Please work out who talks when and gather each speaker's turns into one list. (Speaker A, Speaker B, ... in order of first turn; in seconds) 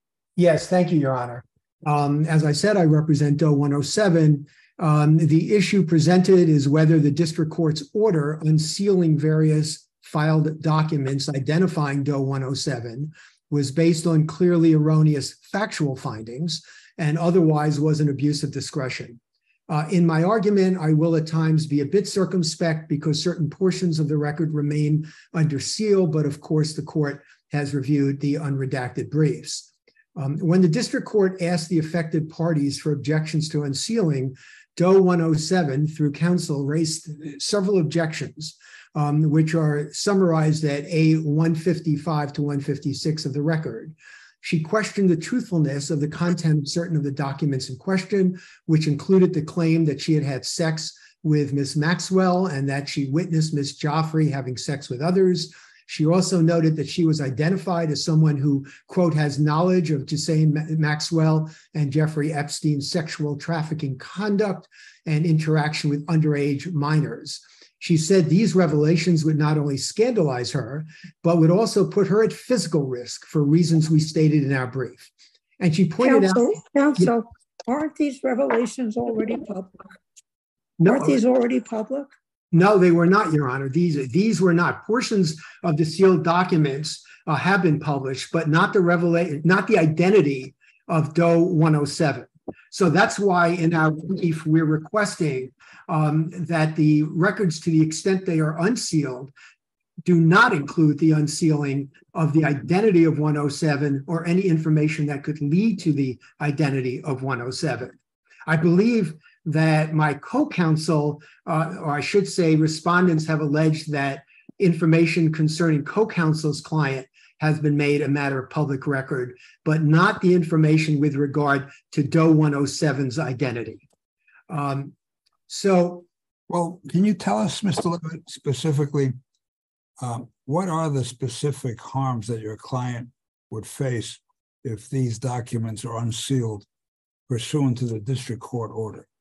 Speaker A: 0.4-77.1, 80.8-81.2, 82.5-99.3, 100.0-123.8, 124.5-124.9, 125.5-126.1
Speaker B: 76.0-79.9, 80.8-82.1
Speaker C: 126.5-129.2, 130.0-136.7, 137.3-139.1